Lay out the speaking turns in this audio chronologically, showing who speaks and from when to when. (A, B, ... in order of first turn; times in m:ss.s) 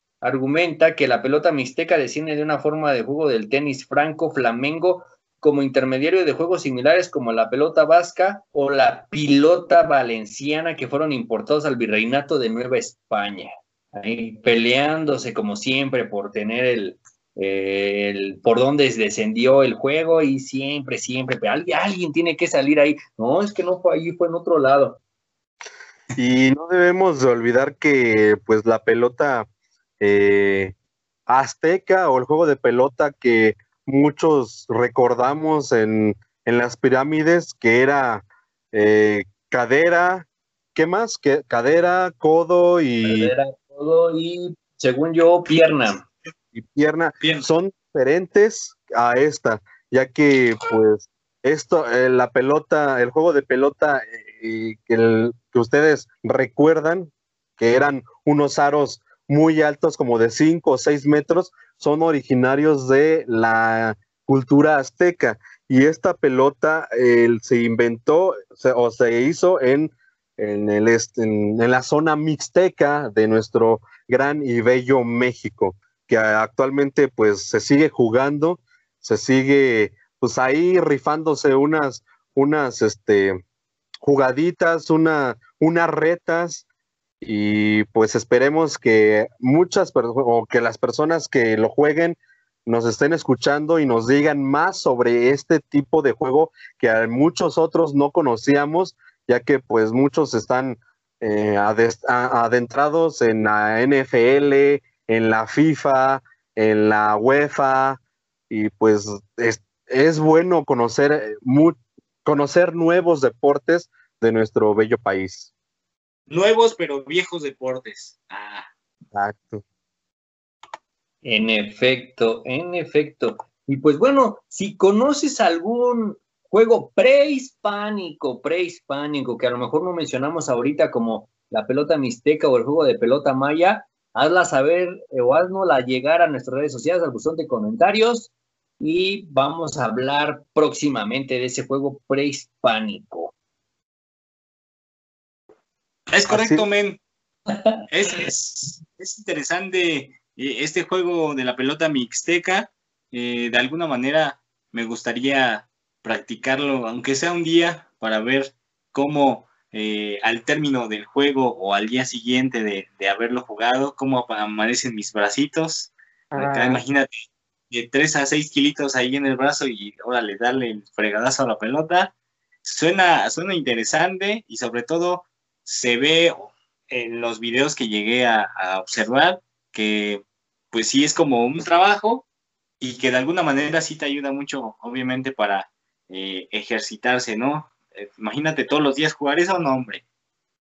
0:00.2-0:25.0 A
0:26.2-0:29.5 B
0:30.0-0:30.7 B
0:31.3-0:43.3 B
0:43.0-0:46.0 A
0:46.5-1:23.4 B
1:24.0-1:26.6 B
1:27.2-1:55.5 B
1:56.3-1:58.7 C
1:59.1-1:59.6 B
2:01.2-2:23.3 A
2:26.1-2:27.0 C
2:26.3-2:26.6 B
2:27.9-2:52.1 C
2:46.3-2:46.8 B
2:52.6-3:02.2 C
3:02.8-3:10.0 C